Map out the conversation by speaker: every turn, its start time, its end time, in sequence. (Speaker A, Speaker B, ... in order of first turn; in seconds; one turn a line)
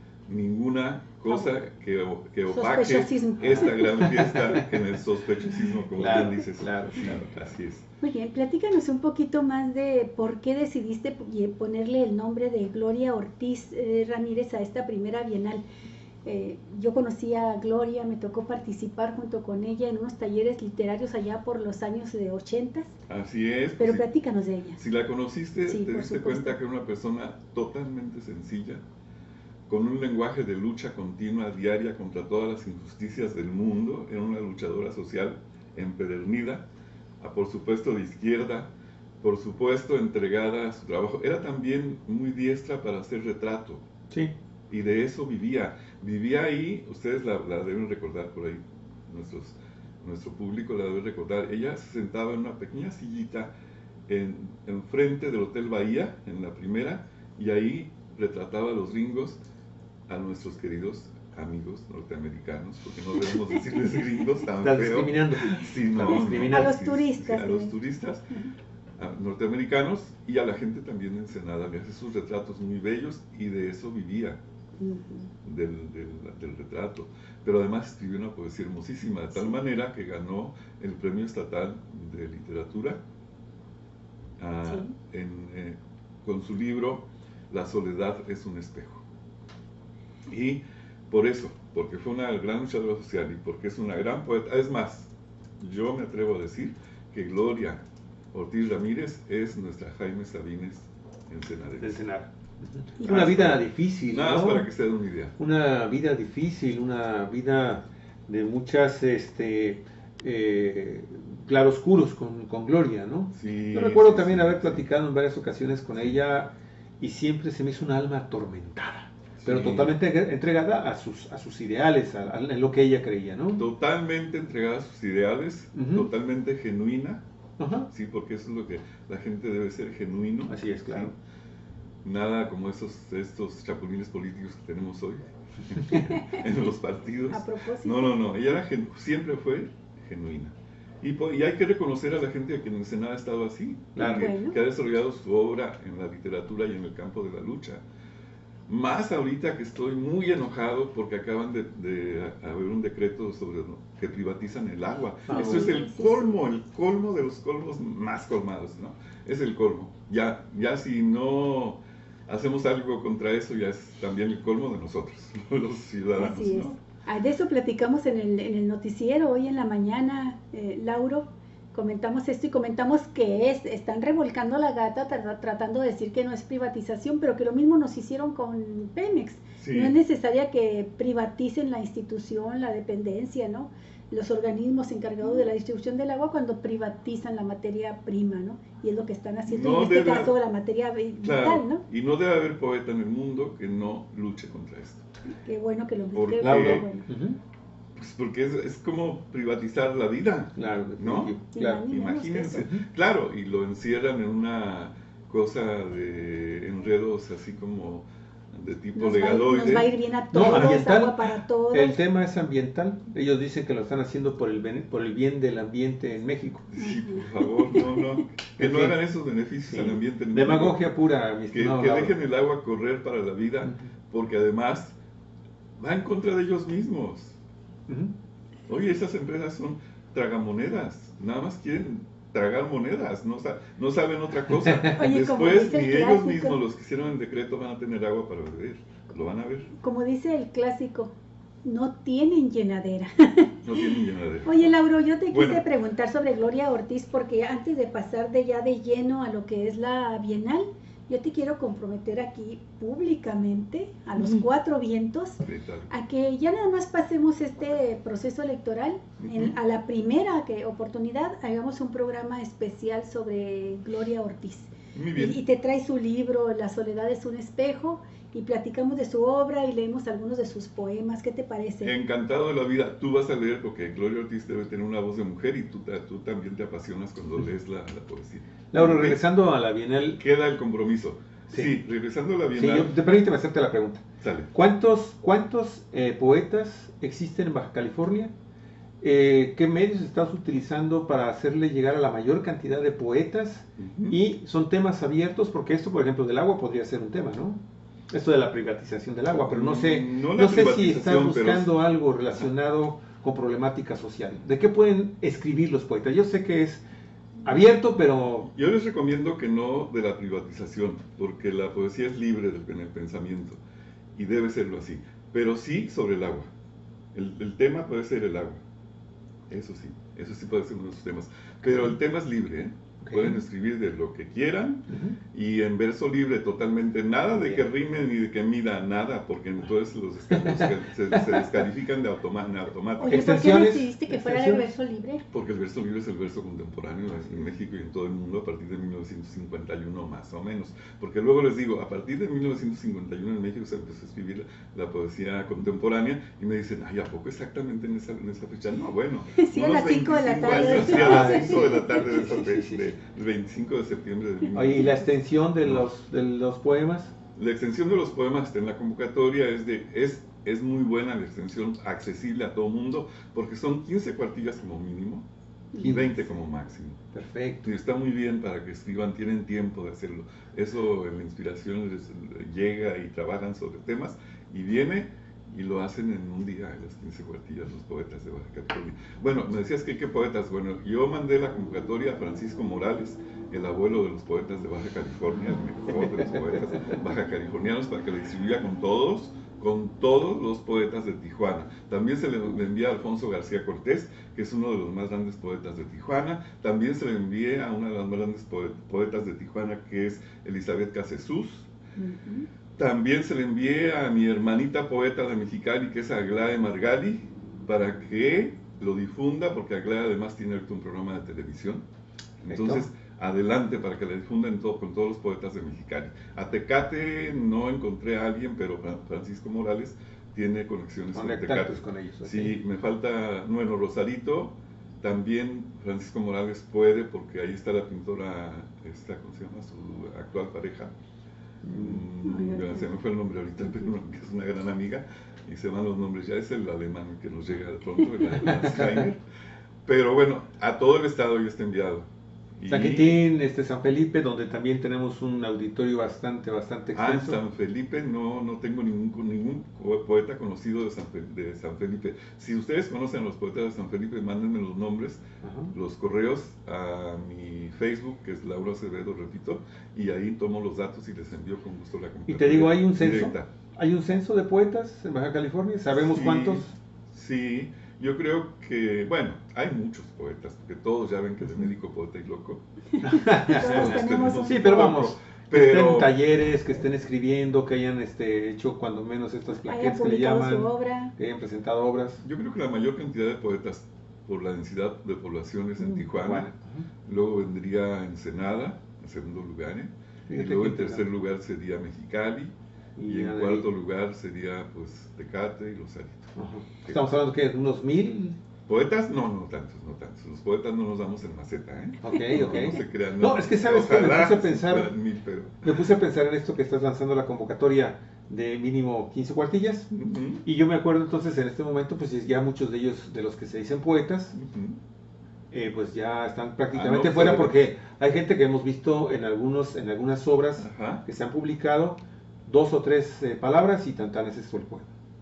Speaker A: 0.3-7.9
Speaker B: 2.5-3.9
Speaker C: 3.4-4.7
Speaker C: 6.0-7.2
Speaker B: 8.0-15.6
Speaker B: 16.2-22.9
Speaker A: 23.1-24.1
Speaker B: 23.8-24.8
Speaker A: 24.8-28.8
Speaker B: 25.7-26.6
Speaker A: 29.7-36.6
Speaker A: 37.2-43.8
Speaker A: 44.7-53.5
Speaker A: 54.1-59.4
Speaker A: 60.1-68.3
Speaker C: 64.6-66.8
Speaker B: 66.1-67.8
Speaker A: 69.0-74.4
Speaker B: 74.8-75.3
Speaker A: 75.4-83.0
Speaker A: 84.4-89.0
Speaker B: 84.7-84.9
Speaker A: 90.3-97.8
Speaker A: 98.3-102.0
Speaker C: 101.8-104.7
Speaker B: 103.0-103.3
Speaker A: 103.0-105.3
Speaker C: 105.4-123.7
Speaker A: 113.3-114.8
Speaker A: 119.4-120.0
Speaker A: 123.6-127.2
Speaker C: 125.8-126.1
Speaker C: 127.6-127.9
Speaker A: 127.9-131.1
Speaker C: 130.5-131.1
Speaker A: 132.0-147.8
Speaker B: 136.0-136.4
Speaker B: 137.3-138.1
Speaker C: 143.9-144.3
Speaker B: 144.0-144.6
Speaker A: 148.7-166.8
Speaker C: 155.3-155.7
Speaker B: 155.3-156.3
Speaker B: 166.2-191.8
Speaker A: 179.6-179.9
Speaker A: 189.5-190.3
Speaker A: 191.2-195.1
Speaker B: 195.3-197.0
Speaker A: 196.1-196.9
Speaker C: 196.4-197.4
Speaker A: 197.9-209.9
Speaker C: 200.6-201.8
Speaker B: 201.5-202.7
Speaker C: 202.5-202.8
Speaker B: 208.9-212.0
Speaker C: 210.3-216.7
Speaker A: 216.7-220.8
Speaker B: 216.8-218.0
Speaker C: 218.6-219.0
Speaker C: 219.7-222.2
Speaker A: 221.5-224.9
Speaker C: 223.6-223.9
Speaker A: 225.8-227.4
Speaker C: 227.9-228.1
Speaker A: 228.7-239.7
Speaker C: 234.6-234.9
Speaker B: 234.9-236.6
Speaker B: 239.8-241.1
Speaker B: 241.6-243.6
Speaker A: 243.6-244.7
Speaker B: 244.4-271.9
Speaker A: 245.3-245.6
Speaker A: 255.4-255.9
Speaker A: 259.2-259.5
Speaker A: 264.9-265.4
Speaker A: 271.8-279.2
Speaker C: 278.7-280.2
Speaker A: 280.2-282.9
Speaker C: 282.5-288.3
Speaker A: 284.2-284.5
Speaker C: 289.0-306.8
Speaker A: 293.8-294.2
Speaker A: 299.5-301.7
Speaker C: 307.4-308.5
Speaker A: 308.5-313.6
Speaker A: 314.1-316.5
Speaker A: 317.1-318.6
Speaker A: 319.5-333.4
Speaker C: 323.0-323.4
Speaker C: 324.9-325.2
Speaker C: 330.3-331.5
Speaker B: 333.0-335.2
Speaker C: 333.1-334.7
Speaker A: 335.3-355.0
Speaker B: 349.4-352.0
Speaker C: 350.5-352.9
Speaker C: 354.5-357.1
Speaker A: 355.6-355.9
Speaker A: 357.4-365.2
Speaker B: 365.7-366.0
Speaker C: 365.8-366.3
Speaker A: 365.8-367.0
Speaker C: 367.1-367.7
Speaker A: 367.6-401.7
Speaker B: 402.0-402.5
Speaker A: 402.8-411.9
Speaker A: 412.4-430.9
Speaker C: 412.5-412.9
Speaker C: 421.1-422.5
Speaker C: 431.6-432.0
Speaker A: 431.7-439.2
Speaker B: 432.2-432.9
Speaker C: 438.4-439.0
Speaker A: 439.9-443.2
Speaker C: 442.7-447.4
Speaker A: 446.9-463.5
Speaker C: 455.4-455.7
Speaker C: 462.3-466.8
Speaker A: 466.0-472.6
Speaker B: 473.0-475.1
Speaker C: 473.0-482.2
Speaker A: 473.5-476.2
Speaker B: 479.7-481.1
Speaker A: 482.2-486.5
Speaker C: 485.8-486.9
Speaker A: 487.0-492.5
Speaker C: 490.3-491.0
Speaker C: 493.0-493.7
Speaker A: 493.1-497.0
Speaker C: 496.4-498.4
Speaker A: 498.7-505.9
Speaker C: 502.0-504.9
Speaker C: 505.6-509.9
Speaker A: 509.9-510.4
Speaker C: 510.4-514.4
Speaker A: 514.3-514.8
Speaker C: 515.5-524.9
Speaker A: 516.7-517.6
Speaker A: 520.6-521.0